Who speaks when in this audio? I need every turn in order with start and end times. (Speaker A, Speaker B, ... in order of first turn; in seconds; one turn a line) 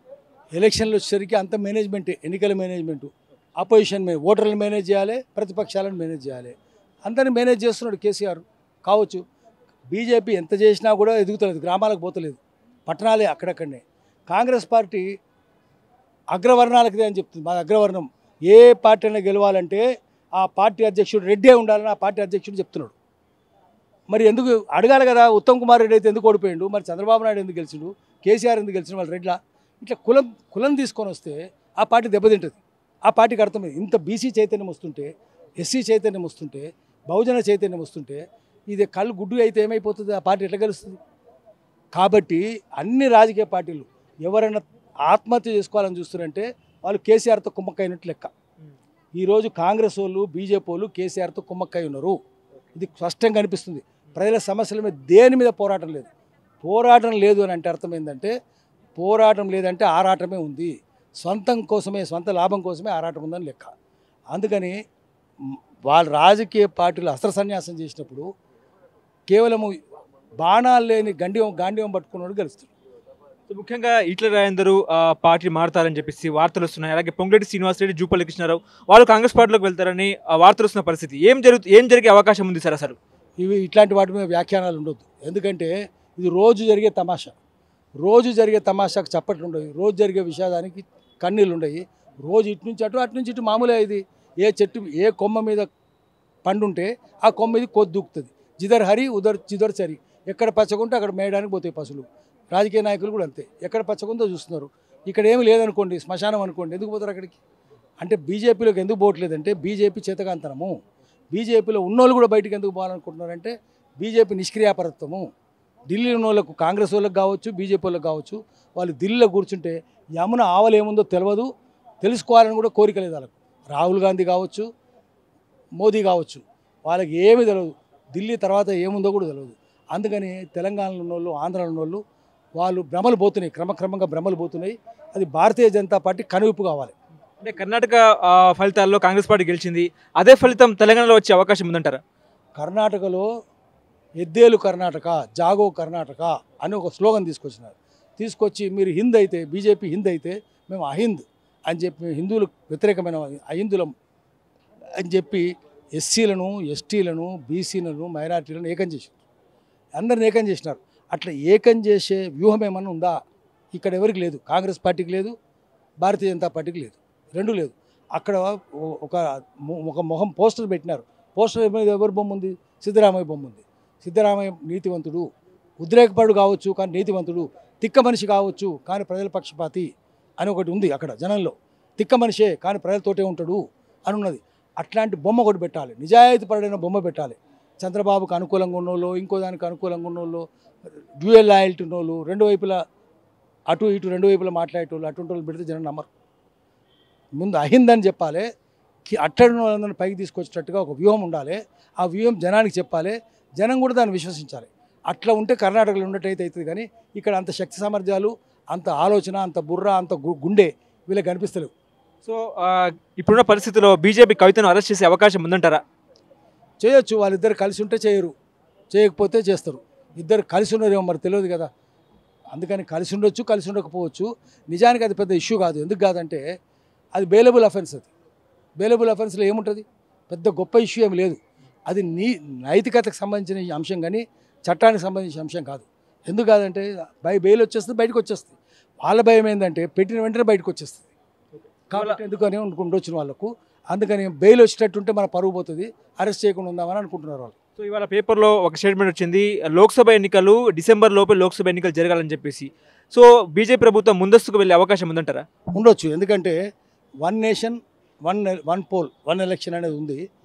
Speaker A: 0.6-6.5
Speaker A: 7.1-9.2
Speaker A: 9.9-15.1
Speaker A: 16.3-19.8
Speaker A: 20.4-22.9
Speaker A: 24.1-35.1
Speaker A: 35.6-41.0
Speaker A: 42.0-48.3
Speaker A: 49.2-52.2
Speaker A: 52.8-56.1
Speaker A: 56.6-58.3
Speaker A: 59.0-63.7
Speaker A: 64.3-64.8
Speaker A: 65.5-68.3
Speaker A: 69.3-69.7
Speaker A: 70.4-72.7
Speaker B: 73.5-83.0
Speaker A: 83.4-87.3
Speaker A: 88.0-95.7
Speaker A: 96.5-107.4
Speaker A: 108.0-110.7
Speaker A: 111.3-115.2
Speaker A: 115.9-121.5
Speaker A: 122.0-124.7
Speaker A: 125.8-132.0
Speaker A: 132.6-136.9
Speaker B: 137.4-142.0
Speaker A: 142.6-143.3
Speaker A: 144.2-153.9
Speaker A: 155.0-159.2
Speaker A: 160.0-163.2
Speaker A: 163.7-165.3
Speaker A: 166.0-175.3
Speaker A: 175.8-190.4
Speaker A: 191.2-192.8
Speaker A: 193.7-196.1
Speaker A: 197.4-198.5
Speaker A: 199.1-211.7
Speaker B: 212.2-215.8
Speaker A: 216.8-218.3
Speaker A: 218.9-221.7
Speaker A: 222.5-226.4
Speaker A: 227.2-228.1
Speaker A: 228.8-241.1
Speaker B: 241.9-242.2
Speaker A: 241.9-247.5
Speaker B: 247.8-255.4
Speaker A: 255.7-256.6
Speaker A: 257.2-260.2